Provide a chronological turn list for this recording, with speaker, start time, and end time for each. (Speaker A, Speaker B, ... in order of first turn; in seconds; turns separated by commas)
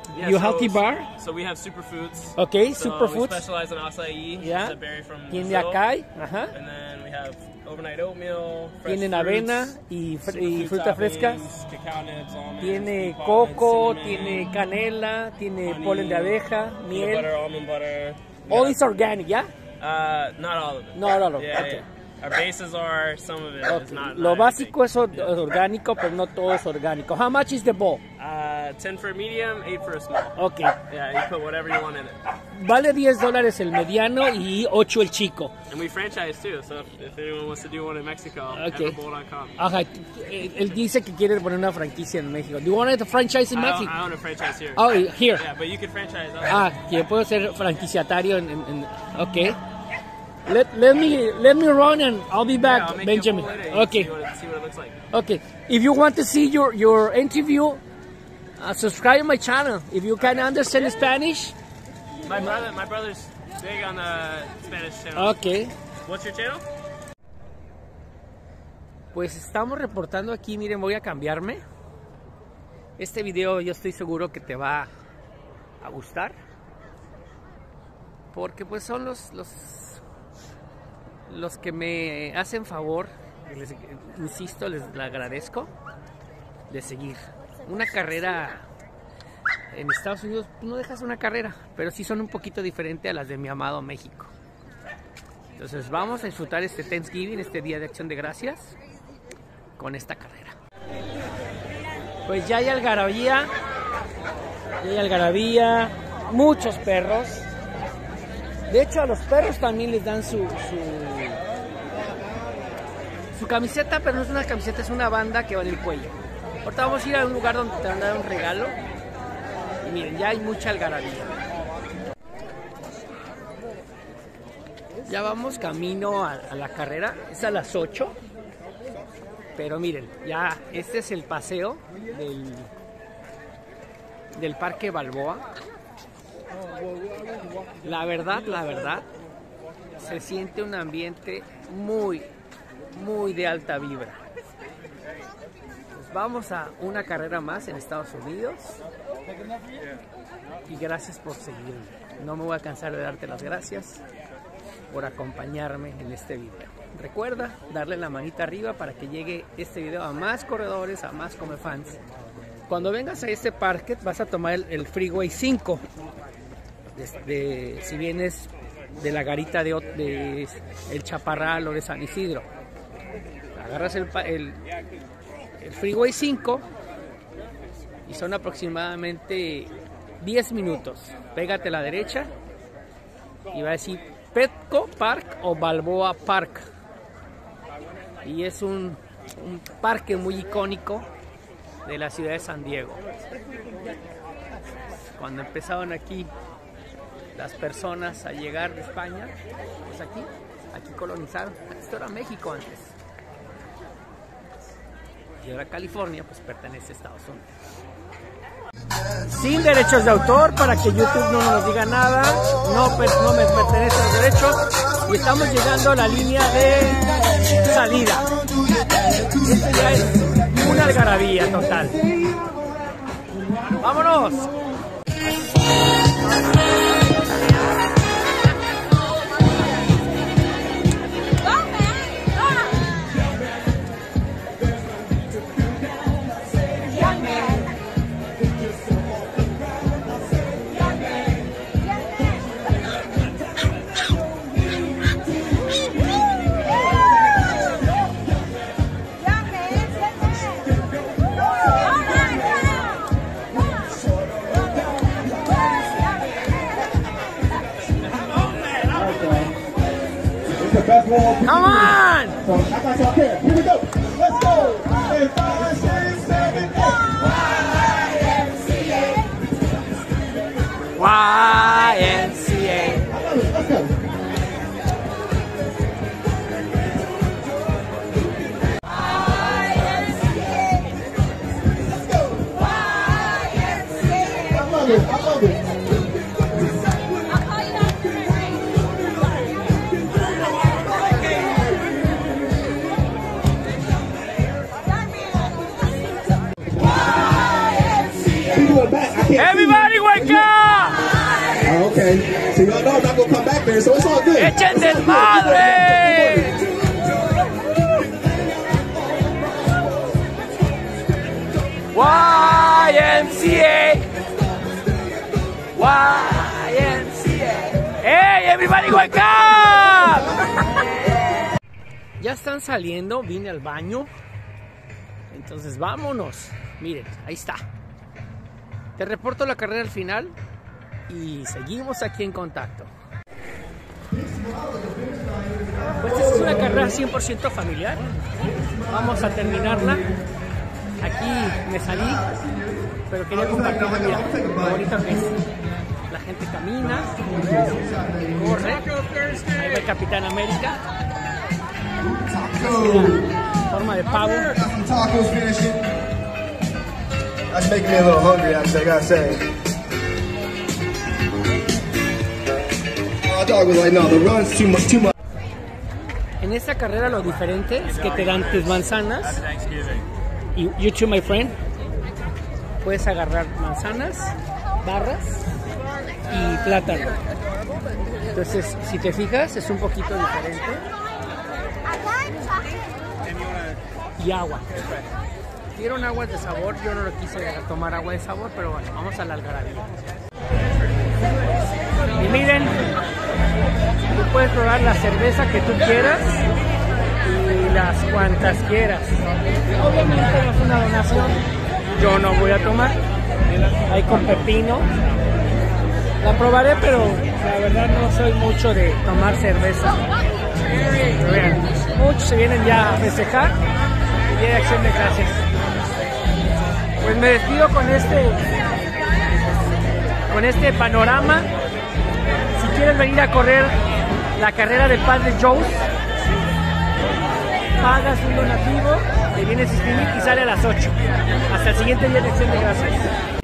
Speaker A: 0.1-5.8, Speaker B: 0.2-1.1, Speaker B: 2.4-3.5, Speaker B: 4.4-4.8, Speaker B: 5.3-6.5, Speaker A: 6.5-14.6, Speaker B: 8.8-11.5, Speaker B: 12.6-17.3, Speaker A: 15.6-18.8, Speaker B: 18.5-19.5, Speaker A: 19.8-25.3, Speaker B: 20.9-21.9, Speaker B: 23.6-28.0, Speaker A: 28.2-32.2, Speaker B: 30.4-30.8, Speaker B: 32.5-35.5, Speaker A: 35.7-39.6, Speaker B: 38.5-39.0, Speaker B: 39.6-43.9, Speaker A: 43.5-46.7, Speaker B: 44.8-45.5, Speaker B: 46.5-49.6, Speaker B: 50.5-54.1, Speaker A: 52.5-55.0, Speaker B: 55.1-57.8, Speaker B: 58.6-61.5, Speaker A: 60.3-60.7, Speaker A: 62.2-65.4, Speaker B: 65.2-65.7, Speaker A: 66.0-66.6, Speaker B: 69.1-71.6, Speaker B: 73.0-74.9, Speaker B: 75.8-76.4, Speaker B: 78.3-80.0, Speaker B: 81.3-85.7, Speaker B: 86.7-88.7, Speaker B: 89.7-94.3, Speaker B: 95.6-98.7, Speaker B: 99.8-100.6, Speaker B: 102.3-103.5, Speaker B: 104.8-107.5, Speaker B: 108.7-111.4, Speaker B: 113.3-118.8, Speaker B: 119.8-121.4, Speaker B: 125.1-128.2, Speaker B: 129.6-132.7, Speaker B: 134.3-135.5, Speaker B: 137.8-139.1, Speaker B: 140.0-142.3, Speaker B: 142.9-144.2, Speaker B: 145.9-148.8, Speaker B: 150.7-154.0, Speaker B: 154.9-162.0, Speaker B: 162.7-165.8, Speaker B: 166.9-172.4, Speaker B: 173.5-174.6, Speaker B: 175.6-176.7, Speaker B: 178.1-182.3, Speaker B: 183.5-186.7, Speaker B: 188.2-191.1, Speaker B: 191.8-193.0, Speaker B: 195.1-196.3, Speaker B: 197.3-199.3, Speaker B: 199.8-202.9, Speaker B: 205.4-207.5, Speaker B: 209.3-218.3, Speaker B: 219.4-222.0, Speaker B: 223.8-224.5, Speaker C: 259.0-259.5, Speaker C: 260.7-261.2, Speaker B: 261.3-262.5, Speaker C: 262.6-266.8, Speaker B: 270.9-273.1, Speaker C: 273.3-273.9, Speaker C: 284.6-285.4, Speaker C: 298.6-299.3, Speaker B: 299.2-301.2, Speaker C: 301.7-304.3, Speaker B: 304.3-306.7, Speaker B: 311.9-314.1, Speaker B: 315.8-320.6, Speaker B: 322.2-324.1, Speaker B: 325.3-327.6, Speaker B: 329.0-330.4, Speaker B: 331.1-332.9, Speaker C: 334.7-335.1, Speaker B: 336.0-338.2, Speaker B: 338.7-340.1, Speaker B: 341.0-342.4, Speaker B: 343.1-345.4, Speaker B: 346.1-348.9, Speaker A: 349.1-349.5, Speaker B: 349.6-350.8, Speaker B: 352.3-354.7, Speaker C: 354.8-355.8, Speaker C: 357.5-359.4, Speaker C: 363.4-365.1, Speaker B: 366.4-369.4, Speaker A: 367.8-370.1, Speaker B: 370.6-371.6, Speaker B: 372.8-375.5, Speaker B: 376.3-377.2, Speaker B: 378.3-380.9, Speaker B: 384.2-384.9, Speaker B: 385.7-389.9, Speaker B: 392.2-392.9, Speaker B: 394.1-396.4, Speaker B: 397.2-401.4, Speaker B: 401.9-403.0, Speaker B: 403.9-404.9, Speaker B: 406.2-410.0, Speaker B: 411.0-413.6, Speaker B: 414.3-415.4, Speaker B: 417.0-418.4, Speaker B: 420.3-421.5, Speaker B: 422.6-423.8, Speaker B: 424.4-425.9, Speaker B: 427.8-431.0, Speaker B: 431.5-433.1